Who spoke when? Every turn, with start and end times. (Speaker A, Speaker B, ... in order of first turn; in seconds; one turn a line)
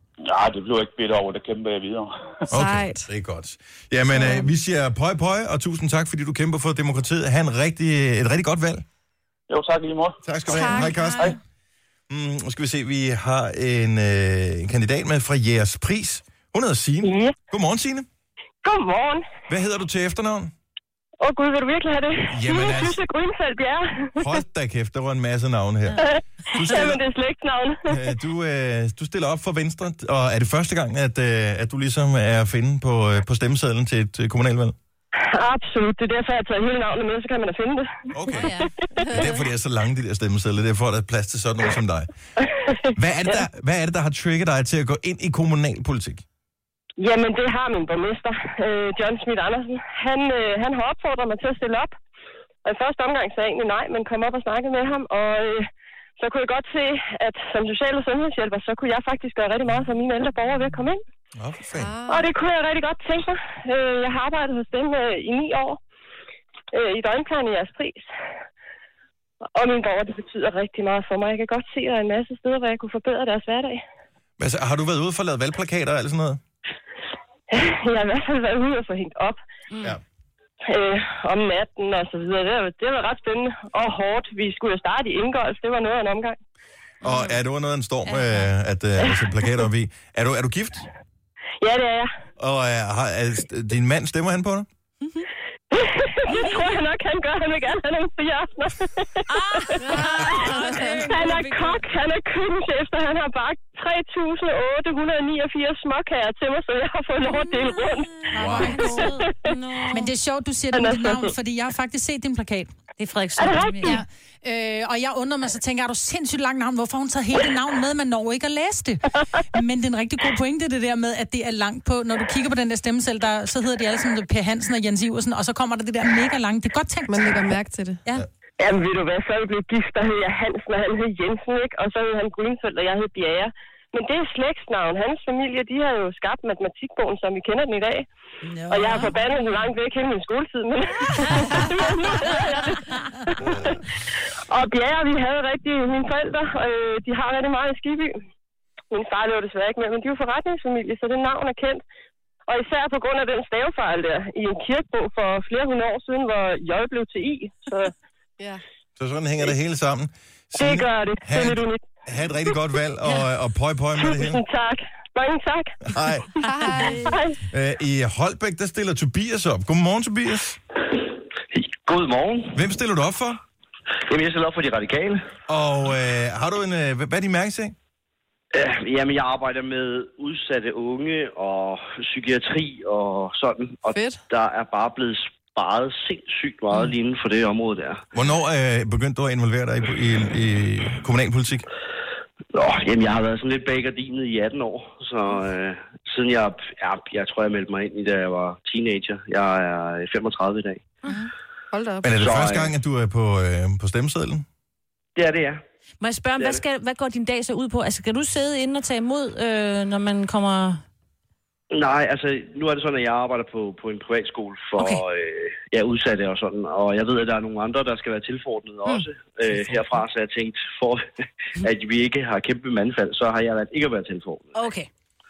Speaker A: 0.2-2.5
Speaker B: 2.5-3.1
Speaker C: 2.5-8.8
Speaker B: 4.2-4.5
Speaker A: 9.5-10.2
Speaker C: 10.2-11.4
Speaker B: 10.5-11.3
Speaker C: 12.1-18.1
Speaker D: 17.0-17.3
Speaker D: 18.6-19.2
Speaker C: 19.5-20.5
Speaker D: 21.2-24.3
Speaker C: 22.3-23.0
Speaker C: 24.2-27.0
Speaker D: 26.0-28.1
Speaker C: 27.9-34.8
Speaker D: 35.1-38.1
Speaker C: 38.1-42.1
Speaker E: 38.3-38.7
Speaker D: 42.8-43.4
Speaker C: 42.9-46.2
Speaker D: 47.0-51.9
Speaker D: 52.6-61.0
Speaker C: 61.3-61.9
Speaker B: 61.7-62.3
Speaker D: 62.1-65.8
Speaker D: 66.7-68.1
Speaker D: 69.5-73.8
Speaker C: 74.4-76.4
Speaker D: 77.5-79.4
Speaker D: 80.7-86.4
Speaker E: 87.0-87.4
Speaker C: 87.0-90.9
Speaker E: 88.0-88.5
Speaker D: 91.6-92.1
Speaker C: 92.4-94.7
Speaker D: 95.7-99.8
Speaker E: 99.3-101.8
Speaker B: 99.8-101.0
Speaker D: 100.9-108.2
Speaker E: 107.2-110.1
Speaker F: 108.3-109.2
Speaker C: 108.4-108.8
Speaker D: 108.9-109.5
Speaker F: 109.9-112.7
Speaker D: 110.7-111.3
Speaker E: 113.0-114.0
Speaker D: 113.4-114.0
Speaker F: 113.8-127.3
Speaker B: 127.1-128.0
Speaker D: 128.6-138.1
Speaker F: 138.7-139.1
Speaker D: 138.7-143.8
Speaker E: 138.7-139.1
Speaker E: 142.2-142.4
Speaker C: 143.4-143.7
Speaker D: 144.5-148.2
Speaker D: 148.9-151.8
Speaker D: 152.5-157.9
Speaker C: 159.0-164.4
Speaker D: 160.6-161.8
Speaker D: 164.0-166.5
Speaker C: 165.8-166.3
Speaker B: 166.4-167.2
Speaker D: 167.0-167.4
Speaker C: 167.5-170.6
Speaker G: 171.5-172.6
Speaker C: 172.5-173.4
Speaker G: 174.1-175.3
Speaker C: 175.5-177.8
Speaker G: 178.5-188.0
Speaker B: 183.9-184.2
Speaker C: 188.1-191.7
Speaker G: 192.5-200.9
Speaker B: 201.7-202.4
Speaker C: 202.0-204.4
Speaker G: 202.2-202.7
Speaker G: 205.2-205.6
Speaker E: 206.0-210.8
Speaker G: 206.4-206.6
Speaker G: 211.7-221.0
Speaker G: 221.6-224.5